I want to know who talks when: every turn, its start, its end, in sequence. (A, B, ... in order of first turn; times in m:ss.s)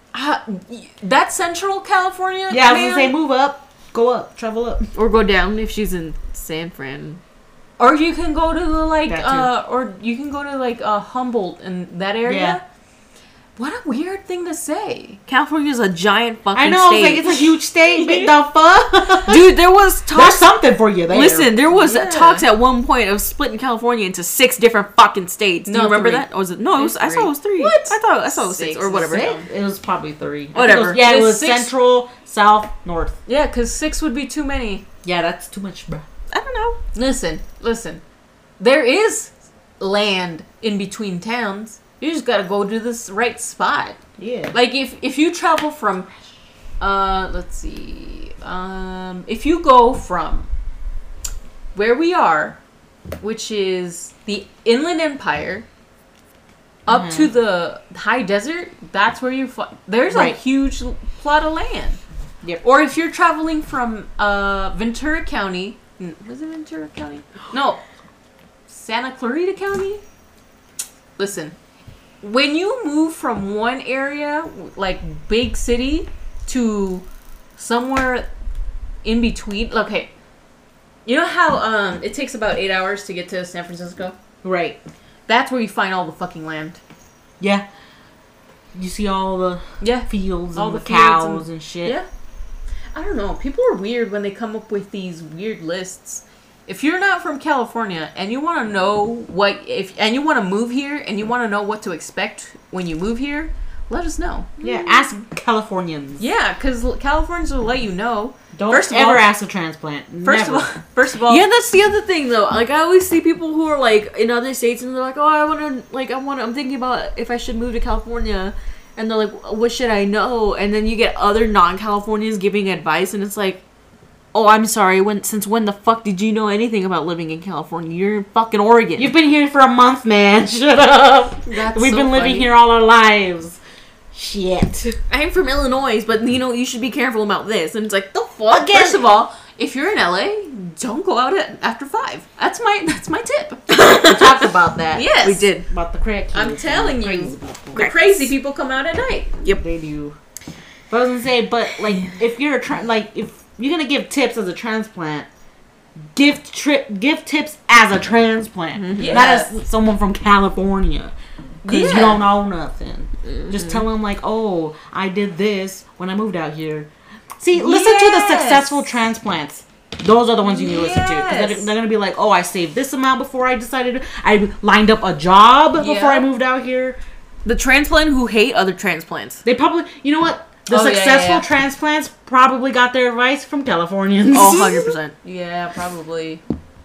0:00.1-0:03.1 A
0:02.5-0:04.9 B
0:04.9-0:07.2 C
0:07.8-0:12.6 A
0:09.1-0:09.5 B
0:12.2-0:12.6 B
0:13.6-0:15.2 A
0:15.3-0:18.3 C
0:16.5-0:19.6 B
0:19.2-0:20.4 C
0:20.1-0:21.5 B
0:21.1-0:29.4 C
0:21.7-0:22.4 A
0:25.6-0:29.4 A
0:29.0-0:33.2 B
0:30.5-0:31.0 C
0:30.8-0:31.7 A
0:33.3-0:34.8 A
0:35.0-0:36.0 B
0:36.3-0:36.8 C
0:36.9-0:38.0 A
0:38.6-0:44.0 A
0:44.2-0:44.6 B
0:44.5-0:46.1 A
0:46.8-0:50.5 A
0:51.7-0:52.6 A
0:53.2-0:55.6 A
0:56.8-1:02.0 A
0:56.9-0:57.3 B
1:00.1-1:00.4 B
1:02.6-1:07.8 A
1:08.7-1:10.0 A
1:11.2-1:11.5 A
1:12.2-1:17.0 A
1:17.6-1:18.3 A
1:19.0-1:20.1 A
1:21.0-1:24.1 A
1:24.4-1:24.8 B
1:25.3-1:26.8 A
1:27.4-1:27.6 B
1:28.7-1:32.0 B
1:29.8-1:32.0 A
1:32.9-1:45.0 A
1:44.6-1:46.2 B
1:46.2-1:49.3 A
1:48.5-1:50.7 B
1:50.2-1:51.4 A
1:51.3-2:03.6 C
2:04.3-2:09.1 C
2:09.0-2:13.6 B
2:11.5-2:12.5 A
2:14.1-2:15.0 B
2:15.1-2:18.8 C
2:18.5-2:23.7 A
2:18.6-2:19.0 B
2:23.7-2:24.4 C
2:23.8-2:25.1 B
2:24.9-2:25.5 A
2:25.1-2:25.6 C
2:25.6-2:27.9 B
2:26.3-2:29.4 A
2:27.7-2:28.2 C
2:29.5-2:30.2 B
2:30.9-2:35.3 B
2:36.1-2:57.0 B
2:38.8-2:39.3 C
2:39.0-2:39.5 A
2:41.6-2:42.2 A
2:43.3-2:43.8 C
2:47.5-2:48.8 A
2:50.4-2:51.7 A
2:55.8-2:56.3 A
2:57.4-2:59.4 C
2:59.4-3:04.9 B
3:00.7-3:01.4 A
3:04.3-3:05.1 C
3:05.2-3:06.4 A